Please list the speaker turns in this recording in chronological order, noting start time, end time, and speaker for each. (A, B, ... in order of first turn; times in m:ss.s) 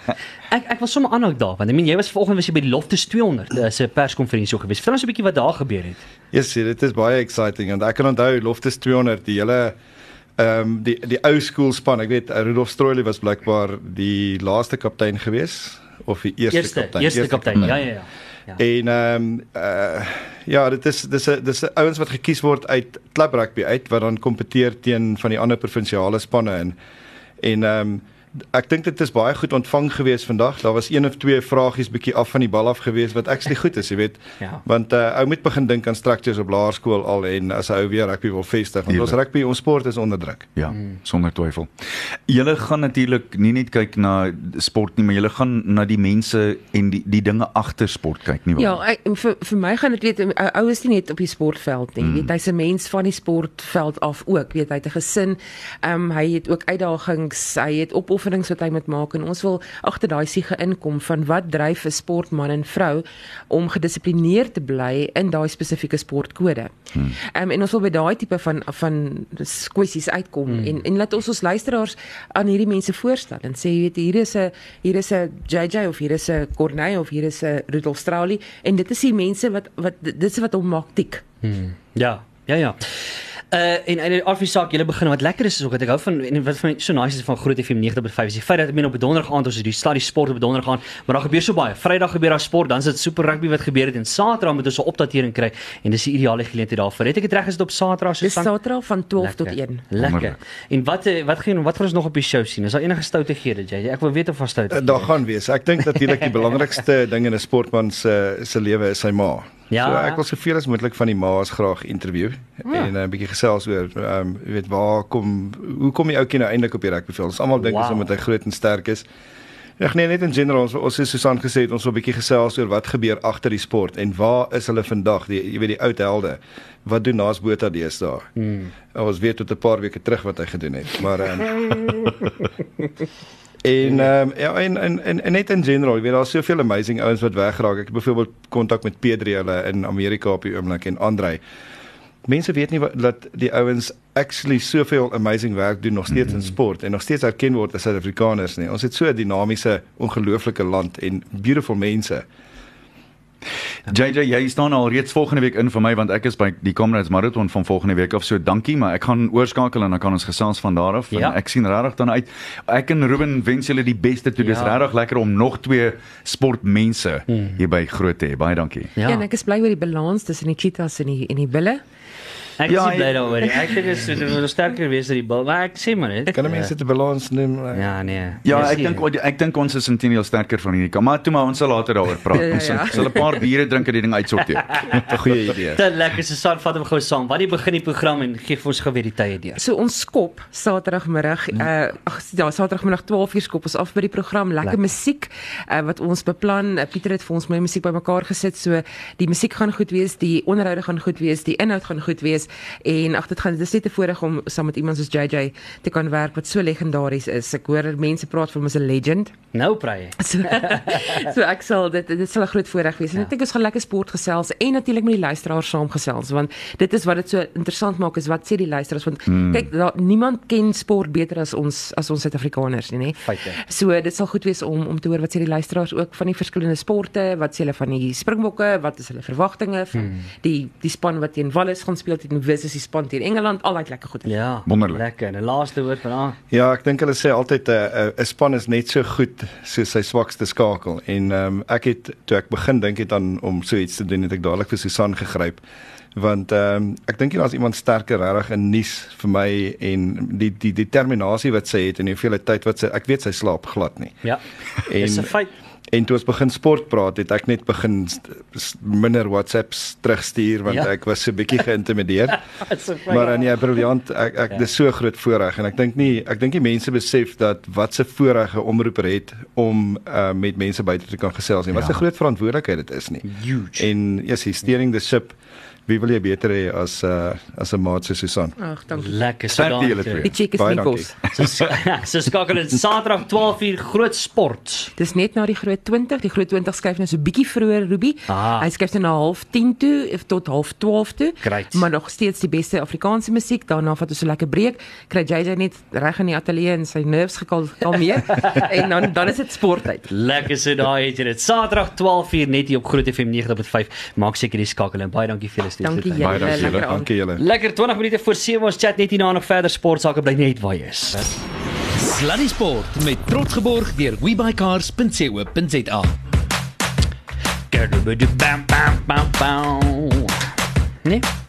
0:00.5-0:06.0 A
0:06.3-0:09.8 B
0:10.4-0:17.8 B
0:16.5-0:18.6 A
0:18.6-0:26.8 B
0:27.4-0:40.5 B
0:38.9-0:39.2 C
0:40.6-0:41.7 C
0:42.3-0:48.8 C
0:48.6-1:06.7 D
0:52.0-0:52.3 C
1:07.3-1:21.2 D
1:10.5-1:10.8 A
1:21.4-1:22.8 A
1:23.5-1:38.5 A
1:38.2-1:39.9 D
1:39.2-1:45.1 A
1:40.0-1:40.4 C
1:44.7-1:59.1 B
1:49.7-1:50.2 A
1:57.6-1:58.1 A
1:59.8-2:08.3 B
2:08.4-2:08.7 A
2:08.9-2:12.0 B
2:13.6-2:21.4 B
2:22.2-2:32.3 B
2:33.9-2:48.9 C
2:41.1-2:41.4 A
2:44.4-2:44.8 A
2:47.3-2:47.6 A
2:49.0-2:49.2 A
2:49.0-2:51.8 D
2:52.6-2:56.7 A
2:52.7-2:53.3 C
2:56.3-2:57.9 B
2:57.7-2:59.0 A
2:58.4-3:05.1 C
3:02.3-3:03.3 D
3:05.1-3:05.8 B
3:05.8-3:09.6 A
3:09.6-3:29.3 D
3:29.5-3:31.3 A
3:30.2-3:54.3 D
3:39.3-3:39.7 C
3:43.2-3:43.6 A
3:49.9-3:50.2 A
3:54.2-3:56.4 A
3:54.7-3:55.0 C
3:56.5-4:05.6 B
4:06.2-4:14.2 B
4:14.9-4:15.3 B
4:15.0-4:15.5 A
4:15.9-4:22.4 B
4:22.3-4:23.5 A
4:23.1-4:33.2 B
4:33.2-4:33.9 A
4:33.8-4:35.4 B
4:35.9-4:38.6 B
4:38.6-4:39.2 D
4:38.9-4:40.3 A
4:39.6-4:40.3 C
4:40.2-4:41.1 D
4:40.6-4:41.1 B
4:41.3-4:44.9 A
4:45.0-5:00.1 D
4:48.3-4:48.7 A
4:51.4-4:51.9 A
4:58.3-4:58.6 A
5:00.1-5:06.8 A
5:05.8-5:07.1 D
5:06.2-5:06.9 C
5:06.7-5:07.4 B
5:07.4-5:11.4 A
5:11.9-5:16.1 E
5:17.7-5:20.4 A